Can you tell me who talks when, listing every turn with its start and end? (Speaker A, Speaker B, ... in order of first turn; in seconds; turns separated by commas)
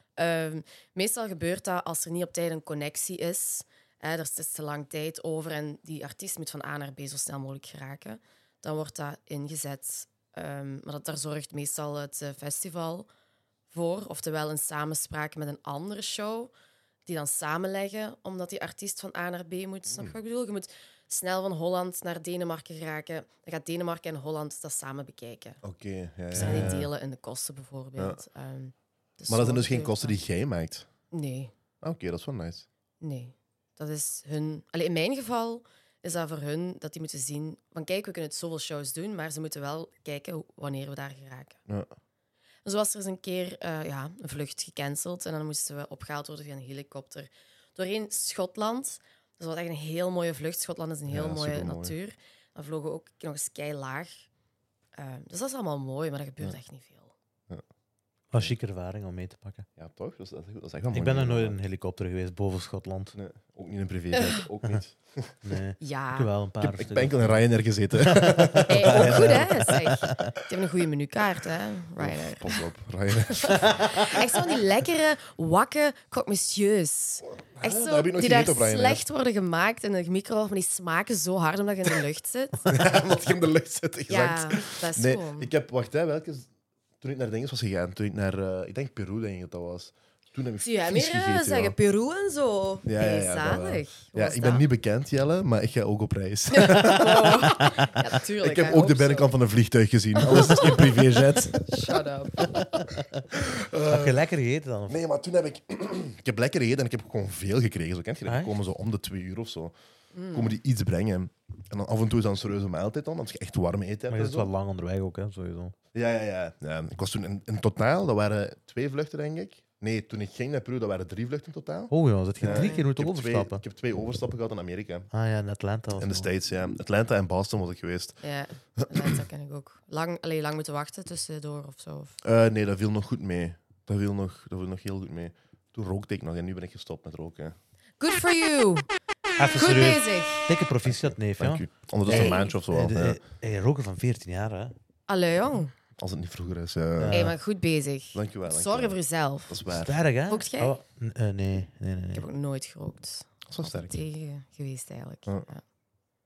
Speaker A: 0.2-13.1, Speaker A: 13.7-16.5, Speaker A: 17.1-25.6, Speaker B: 25.6-26.9, Speaker A: 26.3-30.2, Speaker C: 26.4-26.7, Speaker B: 29.3-30.9, Speaker A: 31.1-31.5, Speaker B: 31.8-32.6, Speaker A: 33.0-41.6, Speaker A: 42.6-54.2, Speaker B: 51.1-52.0, Speaker A: 55.0-57.1, Speaker C: 58.3-59.6, Speaker B: 59.8-61.6, Speaker C: 60.9-63.1, Speaker B: 63.1-65.4, Speaker A: 64.1-64.4, Speaker C: 65.4-67.4, Speaker A: 65.8-66.3, Speaker B: 66.6-69.7, Speaker C: 67.9-70.3, Speaker A: 68.7-72.6, Speaker B: 72.0-73.8, Speaker A: 73.3-82.7, Speaker C: 73.5-73.9, Speaker B: 77.5-79.0, Speaker B: 82.7-86.5, Speaker A: 84.1-85.5, Speaker B: 87.0-91.7, Speaker A: 90.6-94.6, Speaker B: 92.8-97.5, Speaker A: 96.5-99.3, Speaker B: 98.4-102.5, Speaker A: 100.2-102.5, Speaker C: 102.6-105.0, Speaker B: 103.3-104.2, Speaker B: 104.9-109.7, Speaker C: 108.2-108.5, Speaker A: 110.1-110.6, Speaker B: 110.3-114.5, Speaker C: 114.1-115.7, Speaker B: 115.9-125.1, Speaker C: 121.9-123.6, Speaker A: 122.4-122.8, Speaker C: 125.1-126.3, Speaker B: 126.0-128.2, Speaker A: 128.2-132.2, Speaker B: 128.8-129.2, Speaker B: 132.2-137.5, Speaker A: 138.0-138.9, Speaker C: 139.4-144.7, Speaker A: 139.5-140.5, Speaker B: 140.8-143.2, Speaker A: 142.1-142.5, Speaker A: 145.1-145.7, Speaker B: 146.0-147.2, Speaker C: 147.0-147.3, Speaker A: 147.1-149.6, Speaker B: 148.1-149.0, Speaker B: 149.5-150.0, Speaker C: 149.7-152.2, Speaker A: 150.3-150.7, Speaker A: 152.1-155.6, Speaker B: 153.5-154.0